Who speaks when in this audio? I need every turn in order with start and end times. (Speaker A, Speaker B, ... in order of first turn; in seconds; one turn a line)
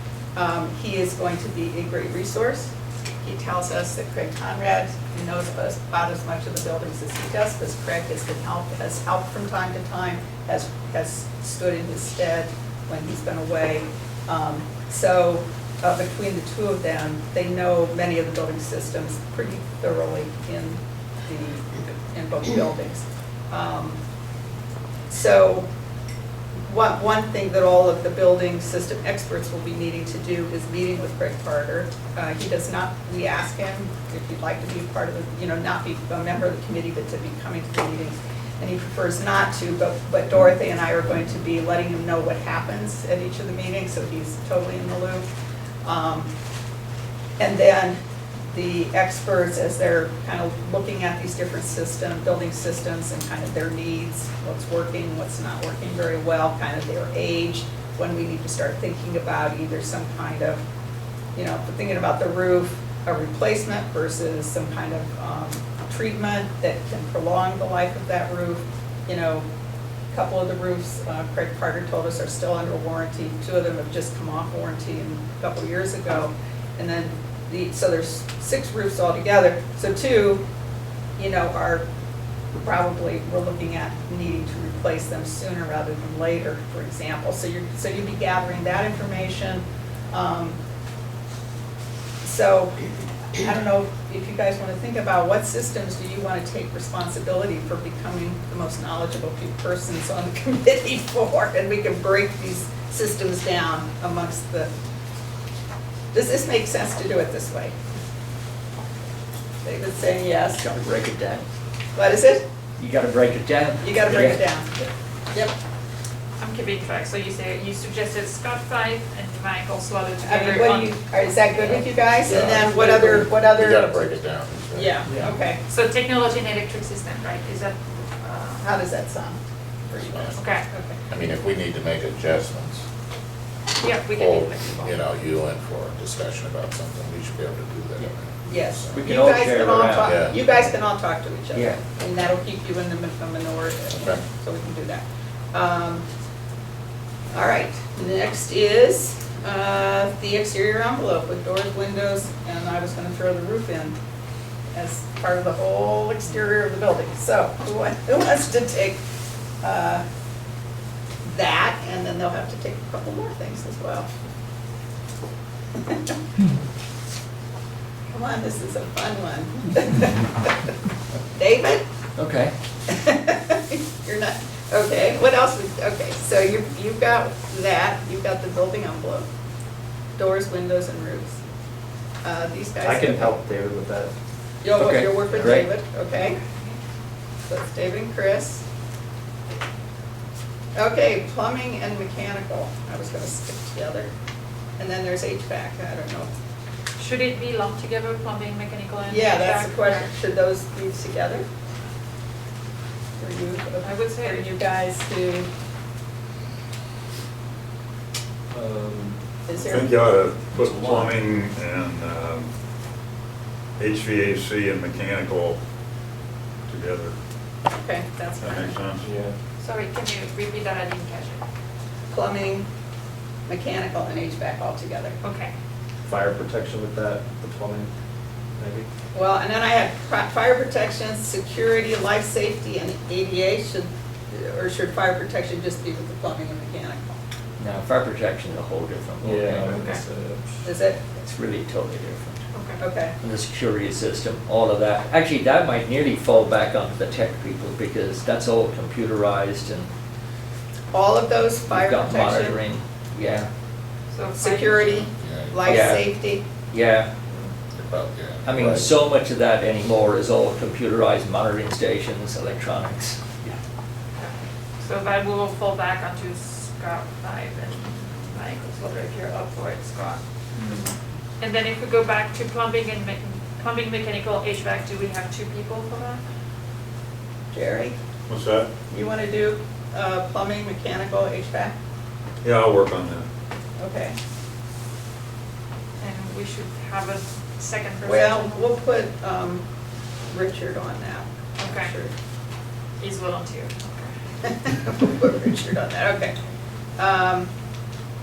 Speaker A: 0.3-24.0
Speaker A: 25.1-25.7
Speaker A: 26.7-45.2
Speaker A: 45.8-46.3
Speaker A: 47.4-48.0
Speaker A: 48.5-60.6
Speaker A: 61.3-69.5
Speaker A: 70.1-80.4
Speaker A: 81.2-81.8
Speaker A: 82.6-90.6
Speaker A: 92.2-104.7
Speaker A: 106.1-107.7
Speaker A: 109.6-110.7
Speaker B: 110.6-111.5
Speaker A: 111.9-112.4
Speaker B: 112.8-114.8
Speaker A: 113.8-114.7
Speaker C: 116.4-121.8
Speaker A: 120.2-124.0
Speaker D: 122.2-125.0
Speaker A: 124.7-125.6
Speaker C: 125.7-128.6
Speaker A: 128.6-130.4
Speaker D: 129.9-130.4
Speaker C: 130.4-130.8
Speaker D: 131.1-132.8
Speaker C: 133.8-135.0
Speaker D: 133.8-139.0
Speaker A: 138.4-146.0
Speaker B: 138.9-140.3
Speaker D: 140.0-140.3
Speaker B: 141.5-141.8
Speaker D: 143.9-144.2
Speaker A: 147.3-153.9
Speaker A: 154.7-159.0
Speaker A: 159.6-160.0
Speaker A: 161.2-164.1
Speaker A: 165.8-166.2
Speaker A: 168.1-170.7
Speaker A: 171.3-171.8
Speaker B: 172.2-172.5
Speaker A: 172.9-179.3
Speaker A: 180.2-181.4
Speaker A: 182.2-183.4
Speaker E: 182.8-184.1
Speaker A: 184.6-186.4
Speaker B: 184.8-185.6
Speaker C: 186.1-186.8
Speaker A: 187.5-188.6
Speaker A: 190.7-194.1
Speaker A: 194.8-196.3
Speaker C: 197.0-200.1
Speaker A: 199.1-201.4
Speaker A: 203.2-205.5
Speaker C: 203.8-204.5
Speaker E: 208.5-209.2
Speaker A: 209.4-209.9
Speaker F: 209.7-212.5
Speaker E: 210.5-211.2
Speaker F: 213.8-215.6
Speaker F: 216.7-217.1
Speaker A: 217.7-218.8
Speaker F: 218.4-219.1
Speaker E: 219.0-219.3
Speaker C: 219.6-221.4
Speaker A: 222.1-222.7
Speaker A: 223.5-225.2
Speaker C: 225.2-225.5
Speaker E: 226.0-227.9
Speaker E: 228.6-228.9
Speaker A: 229.1-237.2
Speaker B: 237.6-239.9
Speaker E: 239.2-240.4
Speaker C: 239.7-240.0
Speaker A: 240.6-241.0
Speaker B: 241.2-242.4
Speaker C: 242.5-242.8
Speaker A: 242.8-243.1
Speaker B: 243.2-249.9
Speaker A: 250.9-252.6
Speaker B: 251.7-253.5
Speaker C: 254.1-255.1
Speaker A: 254.3-256.4
Speaker D: 255.1-255.9
Speaker B: 255.6-256.1
Speaker B: 256.7-257.1
Speaker D: 257.7-258.9
Speaker B: 258.4-263.6
Speaker C: 264.2-276.2
Speaker A: 277.5-277.9
Speaker F: 278.3-278.7
Speaker A: 278.9-281.7
Speaker F: 282.4-283.3
Speaker A: 283.8-284.2
Speaker C: 286.0-288.6
Speaker A: 288.0-289.6
Speaker A: 290.3-292.1
Speaker C: 291.6-291.9
Speaker C: 293.0-294.1
Speaker A: 294.4-296.4
Speaker A: 297.0-297.5